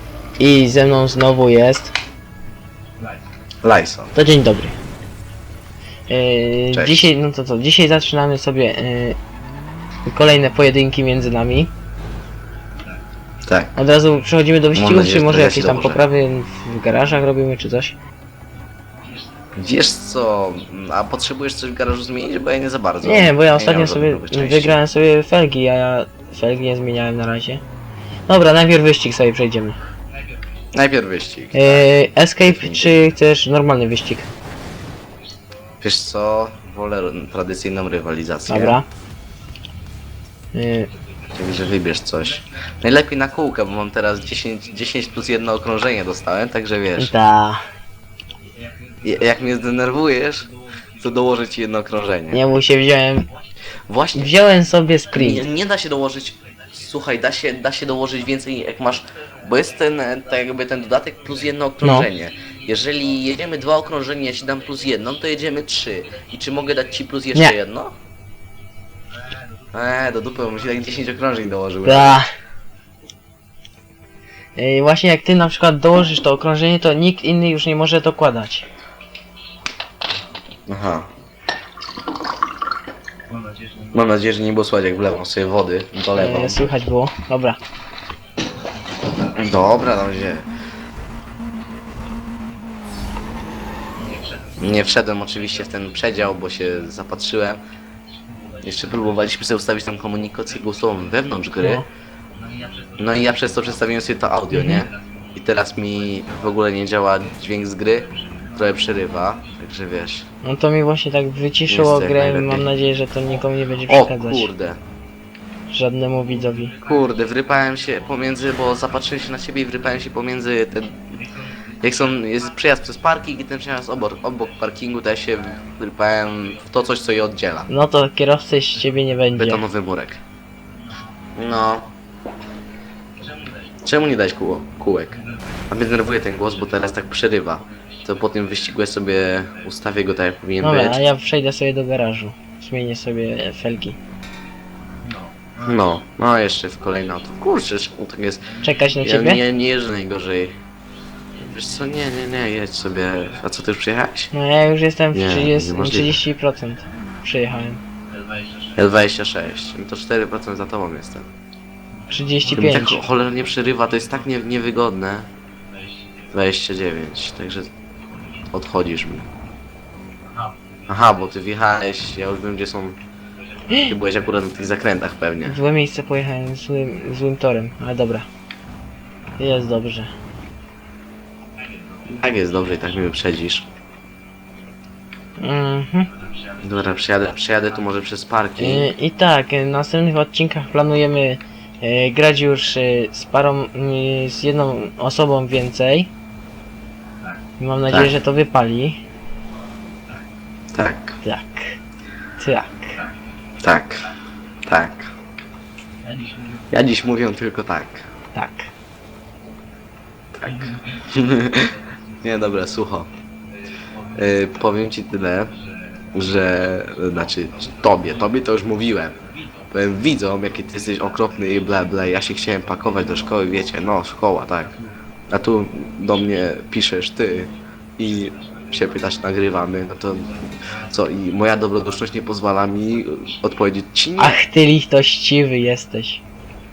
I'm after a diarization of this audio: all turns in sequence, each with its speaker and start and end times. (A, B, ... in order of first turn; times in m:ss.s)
0:00.4-0:01.9 A
0:03.6-0:04.1 B
0:04.1-0:04.8 A
0:06.1-0:09.2 A
0:06.7-0:07.1 B
0:10.1-0:11.7 A
0:13.4-0:13.8 B
0:13.8-0:18.0 A
0:14.7-0:16.0 B
0:19.6-0:24.8 B
0:23.0-0:27.6 A
0:28.3-0:29.8 A
0:30.7-0:31.9 B
0:31.5-0:34.3 A
0:32.4-0:33.0 B
0:35.8-0:38.8 B
0:38.5-0:38.9 A
0:40.5-0:40.9 A
0:41.3-0:47.1 B
0:47.0-0:47.6 A
0:49.0-0:52.4 B
0:52.3-0:53.3 A
0:53.9-0:54.3 B
0:54.2-0:55.4 A
0:55.1-1:08.0 B
1:01.8-1:02.1 A
1:09.7-1:12.2 B
1:11.8-1:12.3 A
1:14.6-1:18.7 A
1:20.7-1:21.1 B
1:23.9-1:26.7 B
1:26.2-1:27.6 A
1:29.3-1:30.5 B
1:34.6-1:37.6 B
1:38.6-1:41.9 B
1:41.6-1:41.8 A
1:43.0-1:50.3 B
1:44.5-1:44.9 A
1:50.4-1:54.5 A
1:51.7-1:52.7 B
1:53.8-1:54.8 B
1:55.7-1:56.8 A
1:56.8-2:01.2 B
2:01.8-2:07.7 B
2:07.7-2:09.6 A
2:09.4-2:10.2 B
2:11.4-2:11.9 B
2:13.8-2:21.0 B
2:20.6-2:24.0 A
2:25.6-2:30.6 B
2:28.6-2:29.4 A
2:31.4-2:34.3 B
2:34.3-2:37.8 A
2:35.1-2:36.2 B
2:38.8-2:41.3 B
2:42.1-2:43.0 A
2:42.5-2:45.3 B
2:46.3-2:47.7 B
2:48.5-2:49.3 B
2:50.9-2:53.0 B
2:53.8-2:55.6 B
2:55.4-2:58.3 A
2:59.4-3:00.1 A
3:02.1-3:03.7 B
3:05.4-3:06.1 A
3:06.6-3:08.9 B
3:08.6-3:16.1 A
3:17.6-3:19.0 A
3:20.7-3:21.2 B
3:21.2-3:21.8 A
3:22.4-3:23.0 A
3:23.6-3:24.1 B
3:24.6-3:25.1 B
3:26.7-3:28.1 B
3:28.3-3:28.7 A
3:30.4-3:33.1 B
3:34.1-3:35.6 B
3:36.1-3:54.4 B
3:54.2-3:56.2 A